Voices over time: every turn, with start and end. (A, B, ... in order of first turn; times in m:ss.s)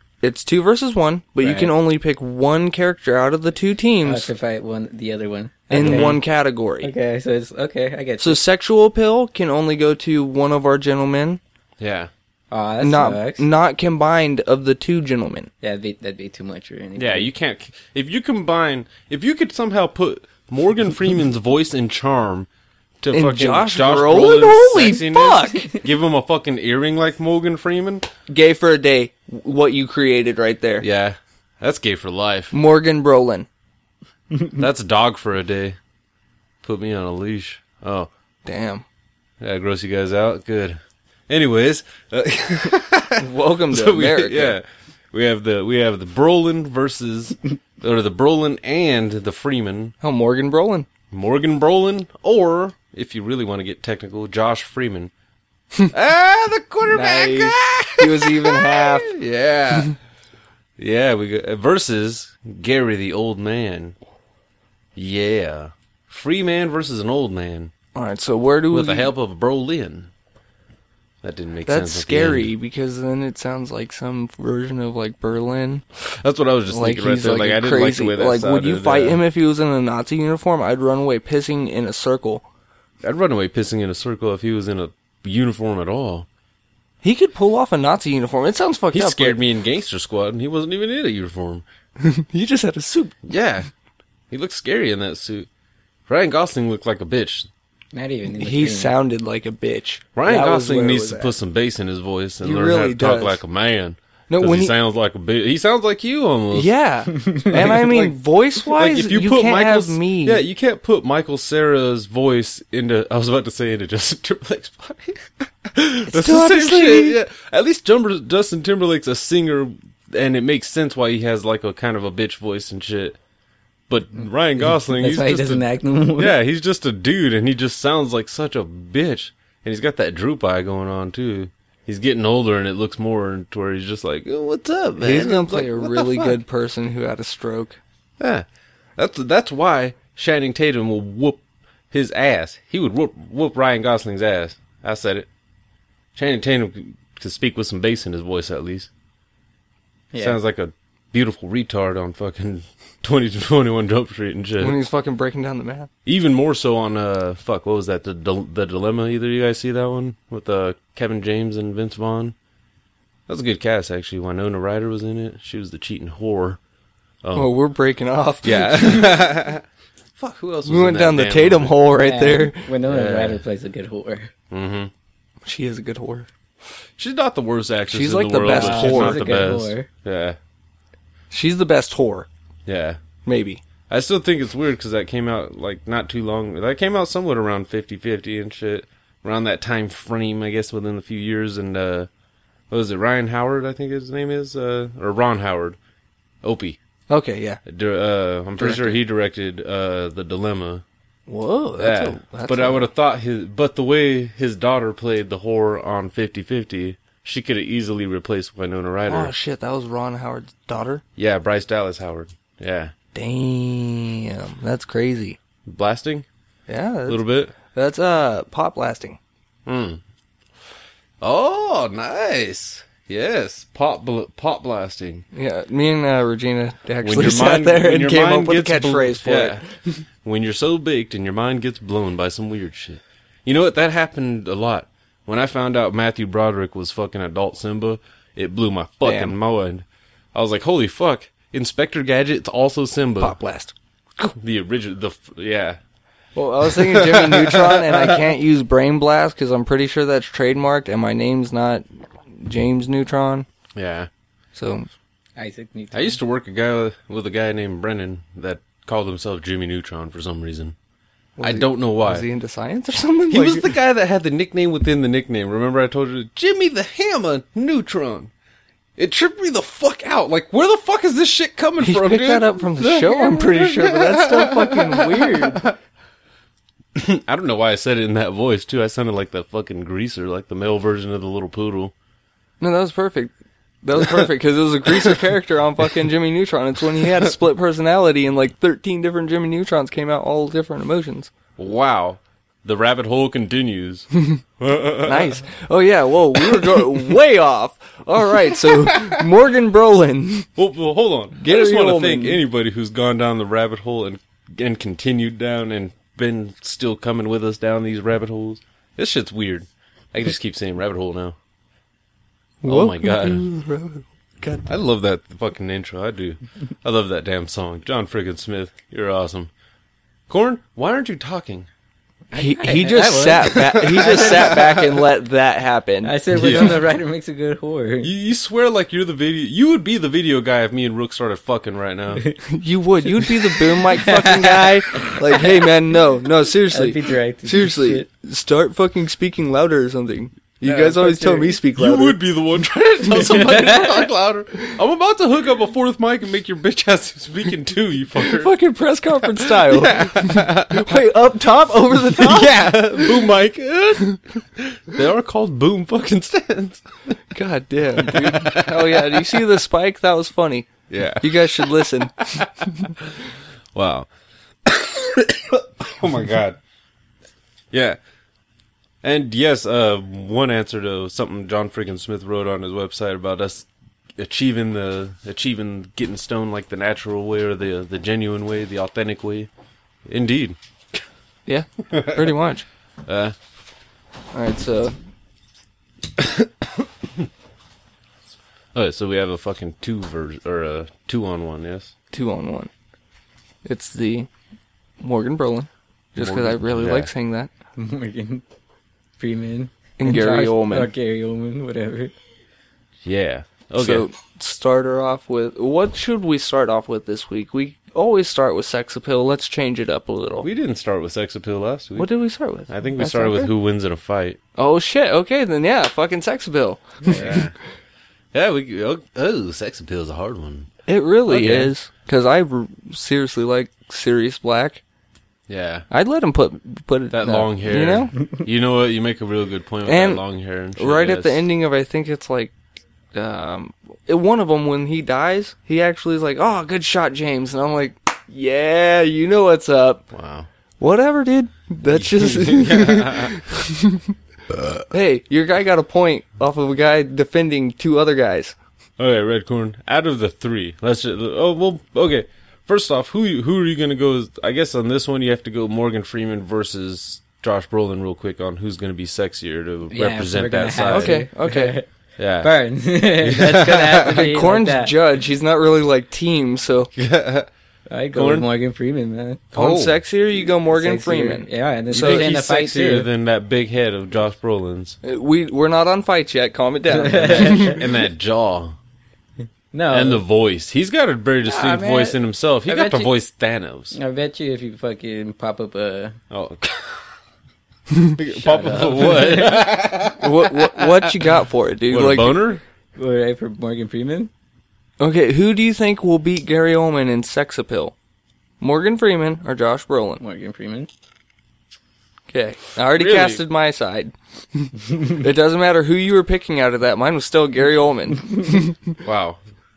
0:00.2-0:04.3 A
0:01.4-0:01.7 B
0:04.0-0:06.2 B
0:05.7-0:06.9 A
0:05.7-0:06.2 C
0:06.8-0:08.4 B
0:08.2-0:11.4 A
0:11.8-0:12.1 C
0:12.5-0:13.4 B
0:12.8-0:15.5 A
0:15.6-0:17.3 B
0:17.0-0:22.5 C
0:23.0-0:28.1 C
0:23.1-0:25.7 A
0:28.3-0:30.9 A
0:30.8-0:32.5 C
0:32.5-0:33.5 A
0:34.5-0:35.8 C
0:36.6-0:38.1 C
0:38.4-0:38.8 A
0:39.4-0:49.9 C
0:43.2-0:44.6 A
0:50.0-0:50.9 A
0:51.1-0:55.1 C
0:55.9-1:00.0 C
0:56.9-0:59.1 A
1:00.8-1:04.0 C
1:05.0-1:07.7 C
1:08.0-1:09.1 A
1:08.7-1:10.1 C
1:11.2-1:12.5 C
1:11.7-1:15.8 A
1:16.0-1:19.2 C
1:16.7-1:22.4 A
1:23.0-1:26.3 C
1:27.0-1:29.4 A
1:28.9-1:31.6 C
1:32.0-1:33.2 A
1:33.2-1:33.7 C
1:34.3-1:35.5 C
1:36.1-1:37.5 C
1:37.9-1:38.9 B
1:38.4-1:40.9 A
1:40.1-1:46.7 C
1:40.3-1:41.3 B
1:42.4-1:43.4 A
1:44.3-1:44.8 A
1:46.5-1:50.4 A
1:47.1-1:47.8 B
1:47.5-1:48.1 C
1:48.6-2:03.2 C
1:56.1-1:57.2 A
2:03.9-2:05.6 C
2:04.2-2:06.4 B
2:06.2-2:16.4 C
2:15.0-2:17.8 A
2:18.2-2:18.5 C
2:19.0-2:25.3 C
2:26.1-2:28.9 C
2:30.1-2:30.4 B
2:30.2-2:34.8 C
2:34.6-2:35.9 A
2:36.1-2:42.4 C
2:43.3-2:46.6 C
2:47.2-2:47.5 C
2:47.3-2:49.2 A
2:48.4-2:49.6 C
2:50.2-2:51.8 C
2:50.6-2:52.7 A
2:51.9-2:54.3 B
2:52.8-2:53.4 C
2:54.5-2:54.9 C
2:55.4-2:56.3 A
2:57.0-3:00.4 C
2:57.9-2:59.3 A
2:58.4-2:59.9 B
3:01.3-3:02.3 A
3:02.6-3:03.0 C
3:03.2-3:03.6 A
3:03.9-3:12.1 C
3:12.7-3:15.8 C
3:16.4-3:16.8 C
3:17.1-3:17.6 A
3:17.6-3:20.8 C
3:18.6-3:19.0 A
3:21.3-3:22.9 A
3:21.8-3:29.3 C
3:29.1-3:31.0 A
3:31.2-3:32.9 C
3:33.1-3:35.4 A
3:35.6-3:36.2 C
3:36.7-3:39.2 A
3:37.1-3:37.5 C
3:39.6-3:40.0 C
3:41.2-3:45.2 C
3:45.3-3:49.7 A
3:47.0-3:49.6 C
3:50.2-4:03.4 C
3:59.0-3:59.4 A
4:03.2-4:03.7 A
4:04.3-4:05.8 C
4:06.4-4:13.5 A
4:06.7-4:08.2 C
4:13.8-4:14.1 C
4:14.5-4:14.9 A
4:15.4-4:16.2 B
4:15.9-4:20.8 C
4:21.4-4:23.7 A
4:21.4-4:22.3 C
4:23.3-4:28.3 C
4:29.0-4:35.7 C
4:31.8-4:35.7 A
4:37.0-4:41.9 C
4:42.6-4:51.3 A
4:51.6-4:55.4 C
4:55.0-5:00.5 A
4:56.4-4:57.0 C
4:58.5-4:59.2 C
5:00.6-5:11.4 C
5:01.4-5:02.4 A
5:12.6-5:14.7 A
5:12.6-5:13.4 C
5:14.6-5:19.5 C
5:20.3-5:21.7 C
5:22.3-5:24.8 B
5:22.3-5:26.7 A
5:23.9-5:24.8 C
5:26.0-5:28.1 B
5:26.3-5:26.9 C
5:28.0-5:32.2 C
5:32.5-5:42.2 A
5:34.0-5:35.7 B
5:36.7-5:38.1 B
5:40.6-5:41.0 C
5:40.9-5:41.5 B
5:41.7-5:48.5 C
5:43.2-5:44.1 B
5:48.2-5:53.0 A
5:49.4-5:51.0 C
5:52.1-5:57.1 C
5:57.3-6:02.5 A
5:58.0-5:59.3 C
6:00.9-6:03.2 C
6:03.7-6:04.1 C
6:04.6-6:06.6 C
6:07.7-6:08.0 C
6:09.0-6:19.5 C
6:20.1-6:21.0 C
6:21.4-6:22.6 A
6:21.9-6:22.2 C
6:23.1-6:23.4 C
6:24.3-6:24.9 A
6:26.2-6:26.8 C
6:28.7-6:31.9 C
6:32.1-6:32.7 A
6:33.6-6:34.3 A
6:35.0-6:37.5 A
6:36.2-6:37.1 C
6:37.8-6:38.4 B
6:39.2-6:42.1 B
6:40.0-6:40.9 A
6:43.0-6:44.1 C
6:43.8-6:50.5 A
6:50.4-6:52.1 C
6:52.0-6:53.5 A
6:52.7-6:54.4 C
6:54.6-6:57.4 A
6:57.0-6:57.5 C
6:58.3-7:00.7 C
7:00.9-7:04.8 A
7:01.3-7:01.7 C
7:05.5-7:05.9 C
7:05.9-7:08.1 A
7:07.1-7:11.4 C
7:09.9-7:10.2 A
7:10.8-7:12.5 A
7:13.1-7:20.1 A
7:20.1-7:20.5 C
7:20.8-7:24.1 A
7:21.9-7:23.4 C
7:24.5-7:24.8 C
7:24.9-7:28.6 A
7:29.0-7:41.2 C
7:39.9-7:41.9 B
7:40.9-7:41.8 A
7:42.2-7:42.5 C
7:42.4-7:45.0 B
7:43.2-7:44.3 C
7:44.1-7:46.9 A
7:46.9-7:47.5 C
7:47.9-7:49.4 B
7:48.1-7:48.5 C
7:49.5-7:50.0 C
7:49.6-7:52.3 A
7:50.6-7:53.1 B
7:51.9-7:55.0 C
7:55.0-7:57.8 A
7:56.9-7:57.8 B
7:57.4-7:58.8 C
7:59.7-8:00.2 B
7:59.9-8:03.9 C
8:01.4-8:03.1 B
8:03.9-8:06.2 B
8:06.3-8:07.0 C
8:08.2-8:11.2 C
8:08.3-8:10.1 B
8:10.2-8:12.4 A
8:11.9-8:12.6 C
8:13.0-8:14.3 B
8:15.0-8:17.9 A
8:18.6-8:20.2 A
8:20.2-8:20.9 B
8:22.3-8:28.8 A
8:22.9-8:23.4 C
8:29.0-8:29.4 C